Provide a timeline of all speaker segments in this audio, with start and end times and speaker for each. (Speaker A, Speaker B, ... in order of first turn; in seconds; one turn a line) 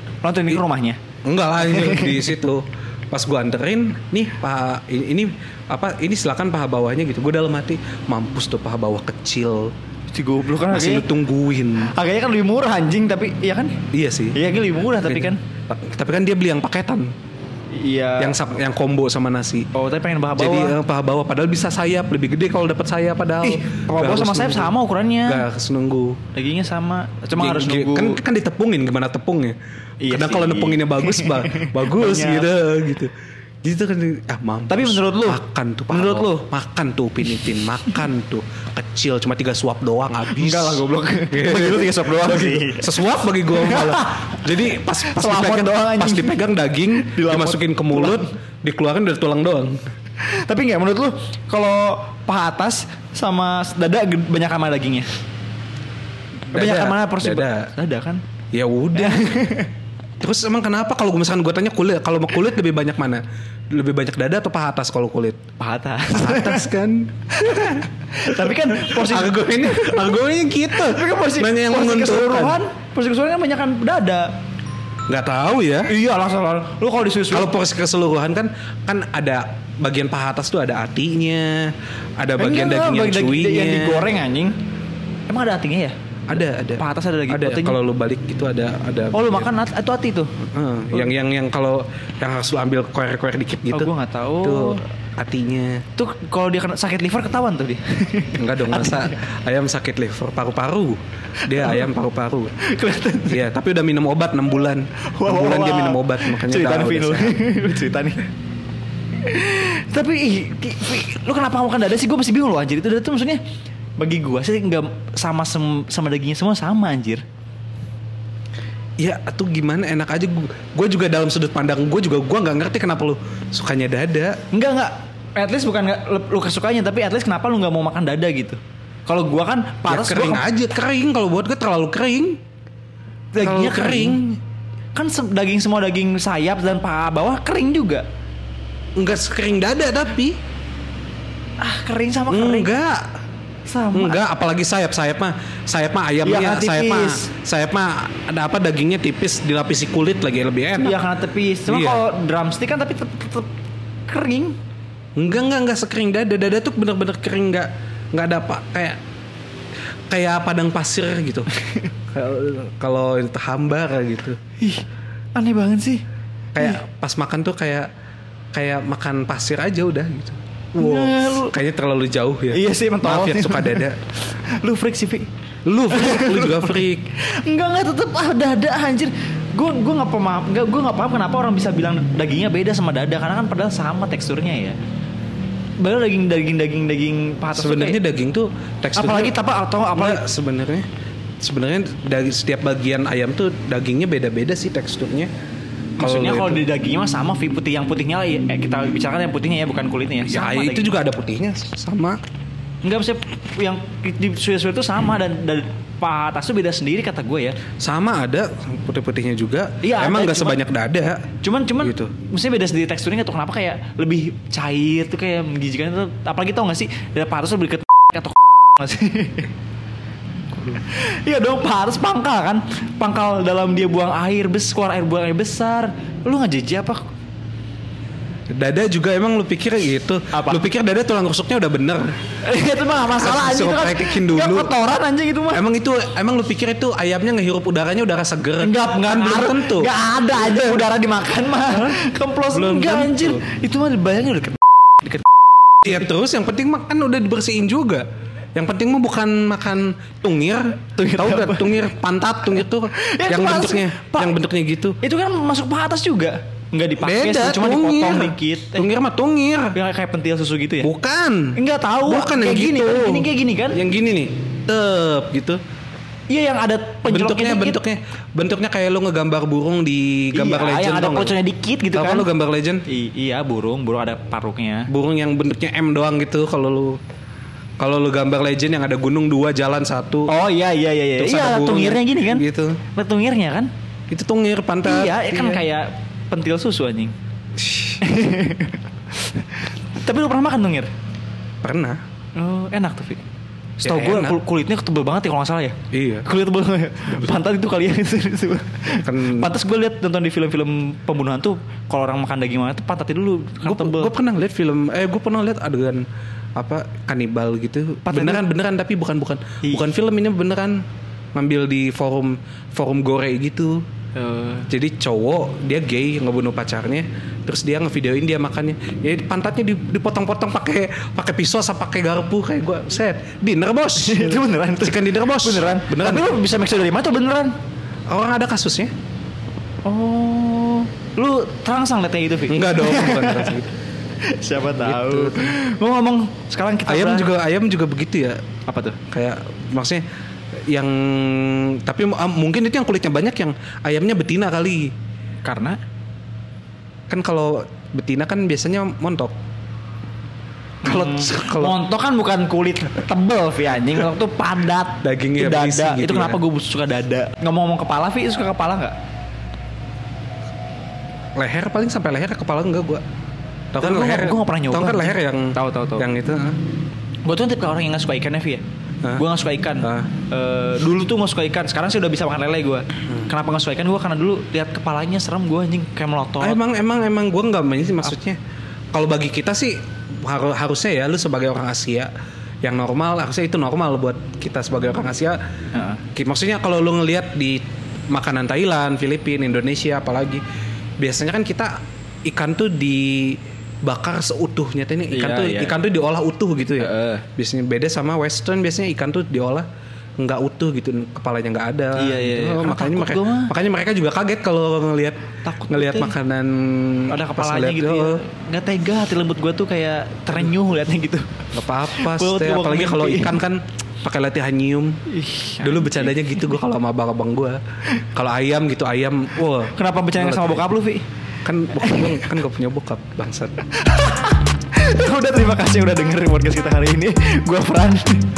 Speaker A: 0.2-1.0
Speaker B: 1.2-9.7
Speaker A: 1.6-2.4
Speaker A: 10.1-11.1
Speaker B: 10.7-11.9
Speaker A: 11.8-13.8
Speaker B: 13.9-14.4
Speaker A: 14.3-15.4
Speaker B: 15.0-17.1
Speaker A: 17.7-18.3
Speaker B: 18.2-19.7
Speaker A: 19.7-20.8
Speaker B: 20.4-24.7
Speaker A: 23.4-25.4
Speaker B: 25.2-26.2
Speaker A: 26.3-28.2
Speaker B: 27.3-29.5
Speaker A: 30.0-32.5
Speaker B: 30.1-49.8
Speaker A: 34.7-36.5
Speaker A: 40.3-42.9
Speaker A: 43.5-46.4
Speaker A: 46.9-48.2
Speaker A: 50.2-55.1
Speaker B: 56.5-57.7
Speaker A: 56.5-58.2
Speaker B: 58.5-59.3
Speaker A: 58.9-59.7
Speaker B: 60.2-65.4
Speaker A: 65.6-66.7
Speaker B: 66.1-72.6
Speaker A: 67.4-70.1
Speaker A: 70.7-74.2
Speaker B: 75.1-75.9
Speaker A: 75.8-77.5
Speaker B: 77.3-84.1
Speaker A: 82.4-84.5
Speaker A: 85.3-87.8
Speaker B: 86.3-89.5
Speaker A: 89.1-90.3
Speaker B: 90.5-95.8
Speaker A: 93.7-94.8
Speaker A: 96.0-99.2
Speaker B: 98.3-102.5
Speaker A: 101.5-101.9
Speaker A: 102.6-103.4
Speaker B: 103.3-107.4
Speaker A: 105.1-108.2
Speaker A: 109.2-113.4
Speaker A: 114.0-117.2
Speaker B: 119.0-124.4
Speaker A: 124.5-130.4
Speaker B: 129.9-132.4
Speaker A: 133.3-134.2
Speaker B: 133.4-134.4
Speaker A: 134.9-138.0
Speaker B: 139.0-140.3
Speaker A: 141.6-142.7
Speaker B: 142.3-143.0
Speaker A: 143.7-144.2
Speaker B: 143.9-151.0
Speaker A: 146.2-147.3
Speaker A: 150.8-153.5
Speaker B: 151.7-152.0
Speaker A: 154.1-154.6
Speaker B: 155.2-159.0
Speaker B: 160.1-161.5
Speaker A: 161.6-161.9
Speaker B: 162.1-164.4
Speaker A: 164.6-166.0
Speaker B: 166.5-167.9
Speaker B: 168.5-174.0
Speaker A: 170.8-171.5
Speaker A: 172.5-175.3
Speaker B: 175.7-177.0
Speaker A: 175.9-184.8
Speaker A: 185.8-188.0
Speaker B: 187.6-189.3
Speaker A: 188.9-190.2
Speaker B: 189.9-190.8
Speaker B: 191.4-195.3
Speaker B: 196.0-196.6
Speaker A: 196.0-200.9
Speaker B: 200.2-202.2
Speaker A: 202.8-207.6
Speaker B: 207.8-211.3
Speaker A: 209.8-210.6
Speaker A: 211.4-219.5
Speaker B: 211.8-212.1
Speaker A: 220.7-227.1
Speaker B: 228.5-232.1
Speaker A: 230.3-230.6
Speaker A: 232.4-235.6
Speaker B: 233.2-234.7
Speaker B: 235.5-240.9
Speaker A: 238.6-245.3
Speaker B: 242.5-243.4
Speaker B: 245.8-255.0
Speaker A: 251.0-251.9
Speaker A: 252.9-254.4
Speaker A: 255.0-258.9
Speaker B: 257.0-259.7
Speaker A: 259.7-260.9
Speaker B: 260.8-265.6
Speaker A: 261.6-263.8
Speaker A: 266.3-267.8
Speaker B: 267.1-271.4
Speaker A: 270.3-272.3
Speaker B: 271.9-272.8
Speaker A: 272.9-274.9
Speaker B: 274.9-277.0
Speaker B: 277.8-280.3
Speaker A: 280.3-283.7
Speaker B: 281.2-282.8
Speaker B: 284.1-285.6
Speaker A: 284.8-287.1
Speaker B: 287.6-288.0
Speaker A: 288.0-290.9
Speaker B: 291.6-292.0
Speaker A: 292.4-293.2
Speaker A: 293.8-304.1
Speaker B: 293.8-294.4
Speaker B: 295.9-296.2
Speaker B: 299.0-299.5
Speaker B: 303.6-306.0
Speaker B: 306.6-310.8
Speaker A: 308.1-308.4
Speaker A: 309.6-309.9
Speaker B: 311.3-313.8
Speaker A: 314.1-314.6
Speaker B: 314.7-326.3
Speaker A: 324.0-327.5
Speaker B: 328.1-328.9
Speaker A: 329.8-333.6
Speaker B: 332.5-333.7
Speaker A: 334.2-337.3
Speaker B: 334.8-335.5
Speaker B: 336.9-338.4
Speaker A: 338.7-339.0
Speaker B: 339.1-340.0
Speaker B: 340.7-344.9
Speaker A: 345.4-345.8
Speaker B: 347.1-349.3
Speaker B: 350.8-351.8
Speaker A: 350.8-358.9
Speaker B: 355.0-356.4
Speaker B: 361.4-363.0
Speaker B: 363.7-366.6
Speaker A: 363.8-366.1
Speaker A: 367.2-368.6
Speaker A: 369.1-376.6
Speaker B: 369.8-370.1
Speaker B: 376.4-378.4
Speaker B: 378.9-382.1
Speaker B: 382.6-385.4
Speaker A: 385.7-386.0
Speaker B: 386.1-390.4
Speaker B: 391.0-391.7
Speaker B: 392.3-399.6
Speaker A: 395.1-395.8
Speaker A: 396.8-397.2
Speaker B: 400.2-408.2
Speaker A: 402.0-403.5
Speaker A: 405.4-406.1
Speaker A: 407.1-411.4
Speaker B: 411.5-414.9
Speaker A: 411.9-413.4
Speaker A: 415.1-416.4
Speaker B: 415.6-420.6
Speaker A: 419.7-421.0
Speaker B: 421.4-423.6
Speaker A: 421.8-422.3
Speaker A: 423.8-428.2